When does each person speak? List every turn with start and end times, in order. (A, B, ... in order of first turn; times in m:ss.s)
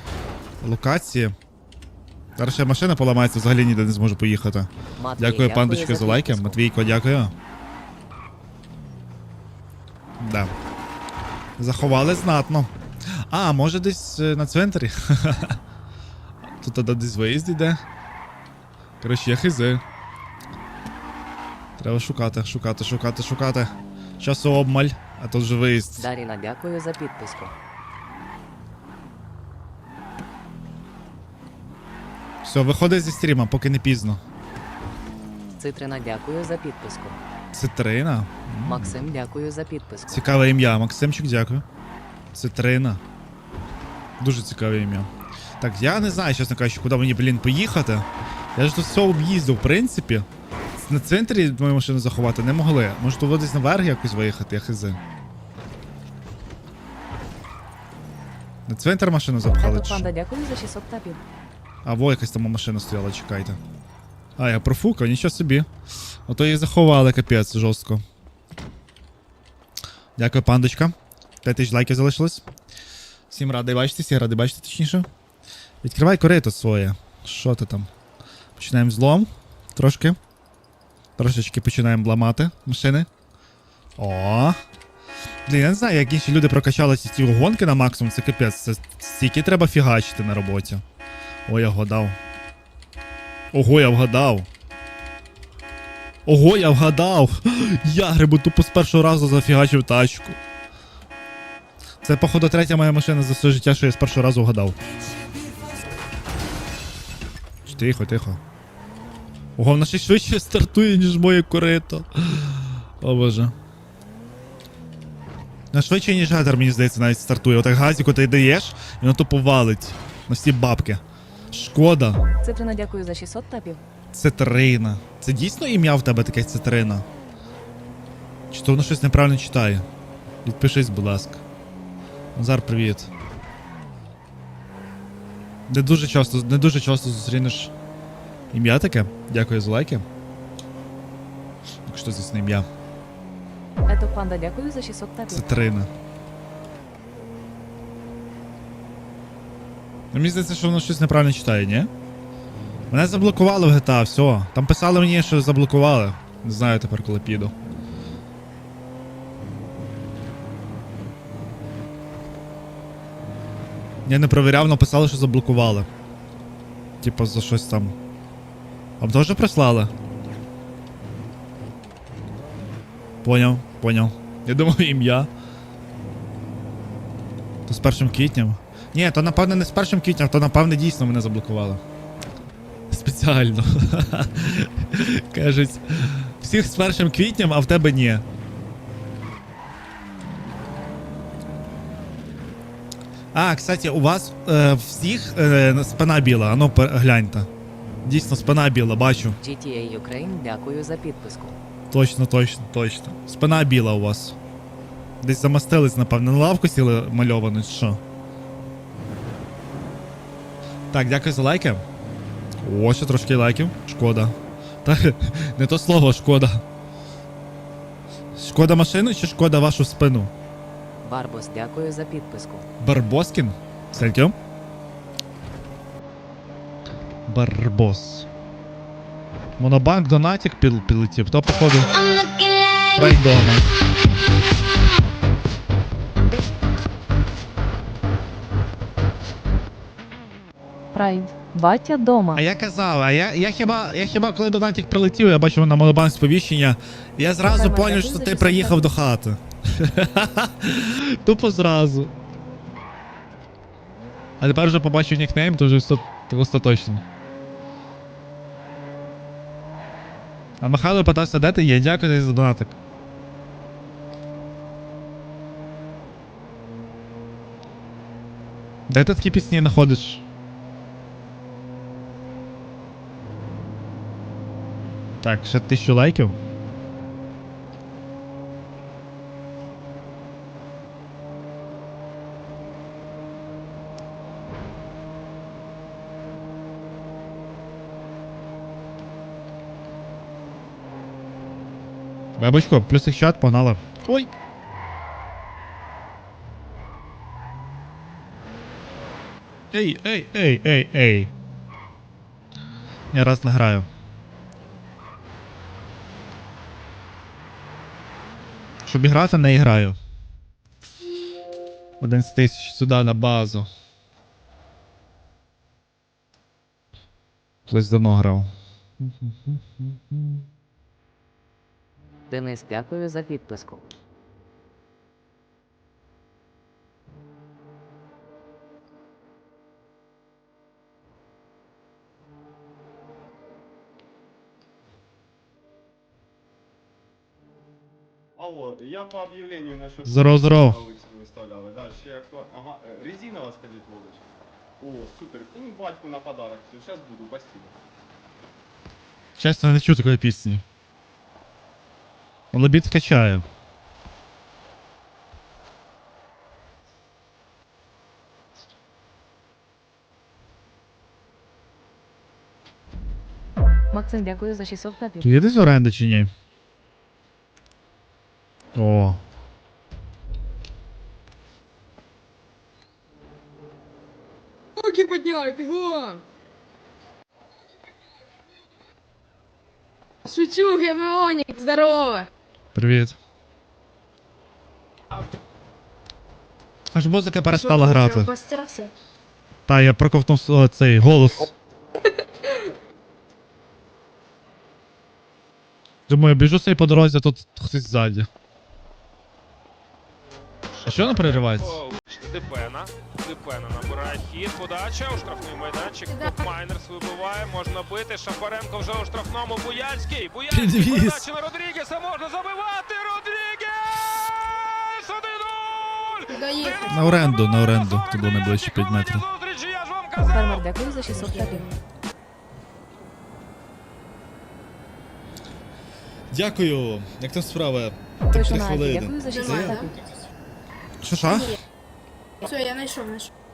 0:00.6-0:01.4 A
0:02.4-0:07.3 A
0:05.0-0:06.6 B
0:10.2-0:10.5 A
0:11.6-0:15.6 A
0:16.6-0:17.8 A
0:19.0-0:19.8 A
0:21.8-0:26.1 A
0:26.0-0:27.5 B
0:32.4-0:34.2 A
0:35.6-0:37.2 B
0:37.5-0:38.9 A
0:38.6-0:40.3 B
0:40.1-0:41.6 A
0:42.3-0:43.0 A
0:44.2-0:45.1 A
0:45.6-0:55.0 A
0:58.7-1:00.1 A
0:59.6-1:01.2 B
1:01.8-1:03.6 A
1:04.4-1:05.7 A
1:06.3-1:08.0 A
1:10.2-1:12.5 A
1:13.3-1:15.1 A
1:15.8-1:17.9 A
1:18.6-1:20.2 A
1:21.2-1:23.1 A
1:24.0-1:24.6 A
1:25.5-1:30.8 A
1:31.5-1:32.2 A
1:33.5-1:34.5 A
1:36.3-1:40.4 A
1:42.0-1:44.8 A
1:47.6-1:48.4 A
1:49.6-1:53.6 A
1:55.7-2:02.2 A
2:02.4-2:03.8 B
2:04.1-2:07.0 A
2:08.5-2:09.9 A
2:10.4-2:11.4 A
2:12.4-2:13.1 A
2:15.7-2:17.7 A
2:18.5-2:20.0 A
2:21.9-2:22.7 A
2:23.9-2:25.5 B
2:25.3-2:25.9 A
2:30.1-2:31.9 A
2:32.9-2:37.6 A
2:44.0-2:45.9 A
2:47.0-2:48.0 A
2:49.0-2:49.9 A
2:53.2-2:55.3 A
2:57.7-3:01.8 A
3:02.9-3:08.2 A
3:13.3-3:17.5 A
3:18.0-3:19.4 A
3:19.4-3:21.6 B
3:21.9-3:24.4 A
3:25.2-3:28.0 A
3:30.9-3:31.8 A
3:32.6-3:36.6 A
3:38.4-3:40.3 A
3:41.0-3:42.7 B
3:42.8-3:44.4 A
3:47.3-3:48.3 A
3:49.6-3:51.9 A
3:52.9-3:53.7 A
4:00.9-4:02.4 B
4:02.3-4:12.1 A
4:07.5-4:08.9 B
4:14.4-4:17.0 A
4:20.6-4:22.8 A
4:28.9-4:30.2 A
4:35.2-4:36.4 A
4:52.4-4:54.3 A
4:59.7-5:01.3 A
5:03.1-5:03.9 A
5:08.8-5:10.0 A
5:12.0-5:13.7 A
5:17.7-5:20.4 A
5:22.3-5:23.8 B
5:38.4-5:44.3 C
5:40.0-5:40.8 A
5:44.8-5:47.8 C
5:49.4-5:50.6 A
5:52.5-5:53.5 A
6:03.9-6:05.3 B
6:05.2-6:06.3 A
6:08.8-6:09.2 A
6:14.8-6:16.2 D
6:20.2-6:22.3 D
6:22.8-6:23.2 A
6:26.9-6:28.3 A
6:27.5-6:28.9 D
6:29.7-6:31.5 A
6:36.1-6:38.3 A
6:40.7-7:01.2 E
6:40.8-6:41.8 A
6:46.1-6:46.5 D
6:50.5-6:51.2 A
6:56.3-6:57.1 D
6:56.9-6:59.2 A
7:00.3-7:01.7 B
7:01.1-7:01.8 D
7:06.3-7:09.9 A
7:08.3-7:09.9 B
7:09.3-7:10.0 D
7:11.0-7:11.6 A
7:11.3-7:11.6 D
7:12.4-7:13.3 D